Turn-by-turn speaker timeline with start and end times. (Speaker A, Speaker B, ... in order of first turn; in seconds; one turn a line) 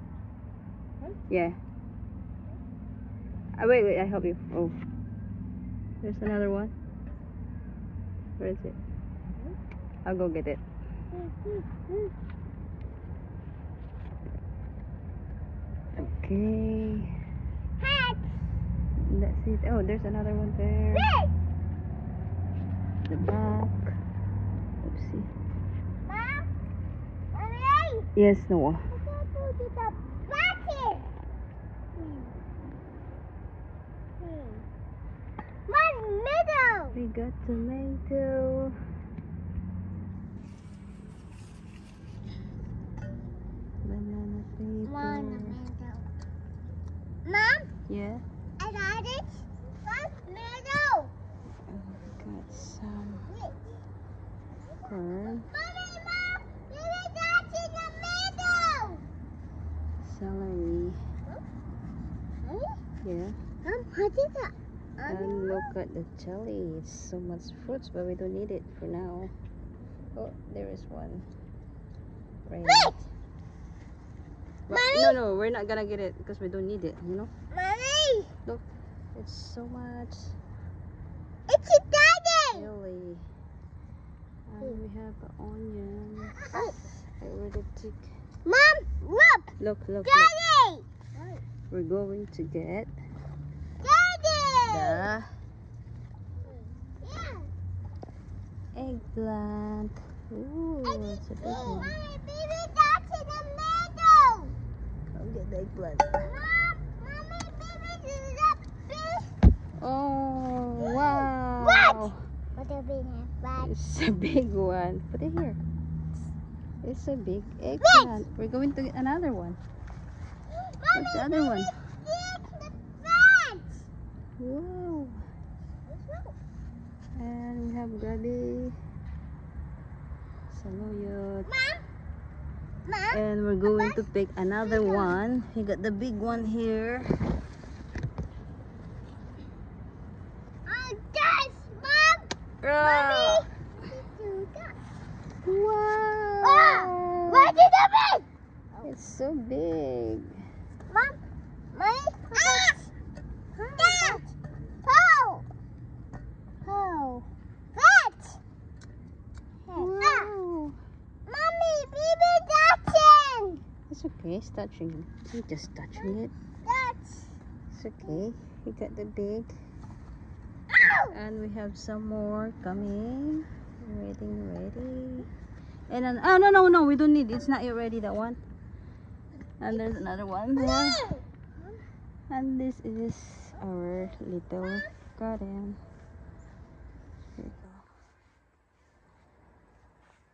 Speaker A: 1.3-1.6
Speaker A: 3.6-4.8
Speaker A: 6.0-6.7
Speaker A: 8.4-8.8
Speaker A: 10.1-10.6
Speaker B: 11.2-11.7
Speaker A: 16.0-17.1
Speaker B: 17.8-18.4
Speaker A: 19.0-21.1
Speaker B: 20.9-21.3
Speaker A: 23.1-23.9
Speaker A: 24.8-25.3
Speaker B: 26.1-26.5
Speaker B: 27.3-28.1
Speaker A: 28.1-28.9
Speaker B: 28.9-31.1
Speaker B: 32.0-32.3
Speaker B: 34.2-34.6
Speaker B: 35.7-37.0
Speaker A: 36.9-38.8
Speaker A: 43.8-45.6
Speaker B: 44.8-46.1
Speaker B: 47.2-47.7
Speaker A: 47.9-48.2
Speaker B: 48.6-51.1
Speaker A: 51.7-53.3
Speaker B: 53.3-53.6
Speaker A: 54.9-55.5
Speaker B: 55.5-59.0
Speaker A: 60.0-61.0
Speaker B: 62.4-62.8
Speaker A: 63.0-63.4
Speaker B: 63.6-65.7
Speaker A: 65.1-69.3
Speaker A: 70.2-71.3
Speaker A: 72.5-73.0
Speaker B: 72.7-73.1
Speaker B: 74.7-75.2
Speaker A: 74.7-77.3
Speaker B: 77.5-78.3
Speaker A: 78.5-80.4
Speaker B: 81.5-82.7
Speaker A: 82.5-83.3
Speaker A: 84.5-88.1
Speaker B: 86.3-86.8
Speaker B: 88.5-91.4
Speaker A: 89.6-90.3
Speaker A: 91.7-92.9
Speaker B: 93.8-95.1
Speaker A: 94.7-95.3
Speaker B: 96.4-97.5
Speaker A: 98.7-102.0
Speaker B: 100.8-104.5
Speaker A: 105.1-106.3
Speaker B: 106.2-109.3
Speaker A: 109.8-112.2
Speaker B: 110.8-113.7
Speaker A: 113.6-115.6
Speaker A: 116.8-119.6
Speaker B: 117.8-118.2
Speaker B: 120.5-123.8
Speaker A: 120.9-121.7
Speaker A: 124.4-125.2
Speaker B: 125.9-126.3
Speaker A: 127.2-128.8
Speaker A: 130.5-131.5
Speaker B: 131.5-131.9
Speaker B: 132.9-134.0
Speaker A: 133.1-137.3
Speaker B: 134.6-135.2
Speaker B: 140.7-144.8
Speaker A: 142.6-143.5
Speaker A: 145.4-147.6
Speaker B: 146.4-148.9
Speaker A: 148.8-150.4
Speaker B: 150.9-151.2
Speaker B: 151.7-152.9
Speaker A: 152.4-152.7
Speaker B: 153.6-154.3
Speaker A: 153.7-154.2
Speaker B: 154.8-155.5
Speaker B: 156.6-158.4
Speaker B: 159.7-160.3
Speaker A: 159.7-160.8
Speaker B: 161.3-163.6
Speaker A: 163.9-166.3
Speaker B: 166.0-167.3
Speaker A: 167.7-169.5
Speaker B: 170.7-171.1
Speaker A: 171.1-175.3
Speaker A: 175.9-178.4
Speaker A: 179.6-181.2
Speaker B: 180.6-181.2
Speaker A: 182.3-185.8
Speaker A: 187.4-187.9